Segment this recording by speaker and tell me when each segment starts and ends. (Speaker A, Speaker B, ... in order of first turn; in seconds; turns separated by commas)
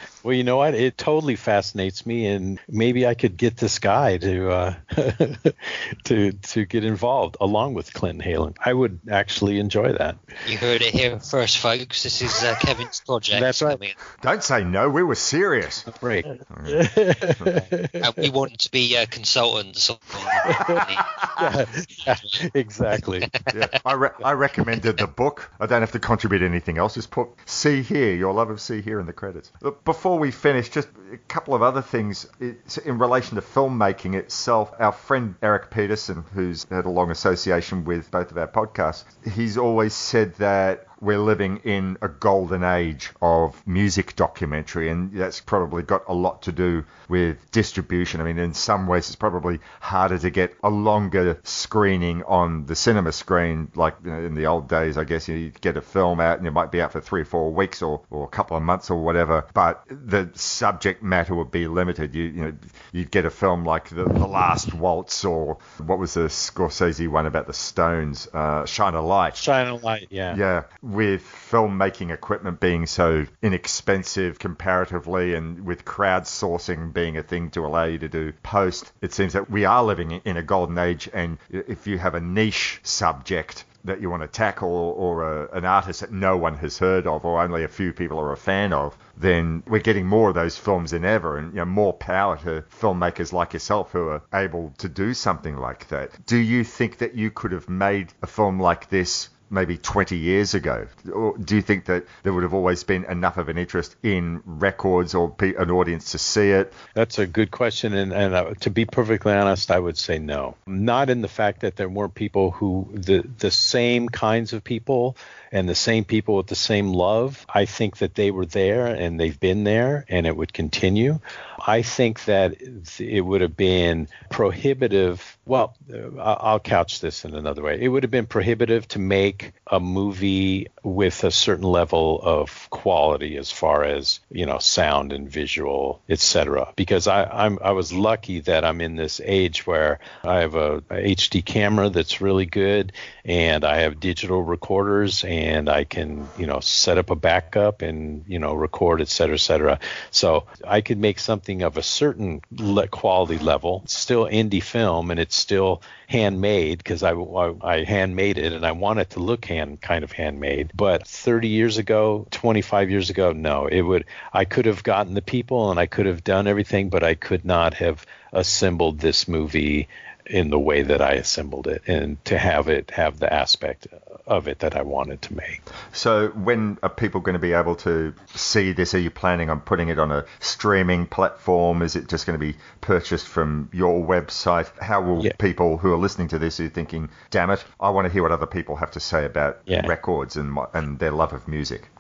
Speaker A: 0.2-10.2, Speaker B: 10.4-14.0, Speaker A: 13.3-13.8, Speaker C: 14.2-15.9, Speaker A: 15.9-18.0, Speaker C: 16.5-16.8, Speaker B: 18.0-21.1, Speaker A: 20.4-23.3, Speaker C: 23.5-69.4, Speaker A: 69.4-70.4, Speaker C: 70.3-106.8, Speaker A: 107.0-175.6, Speaker C: 175.9-191.9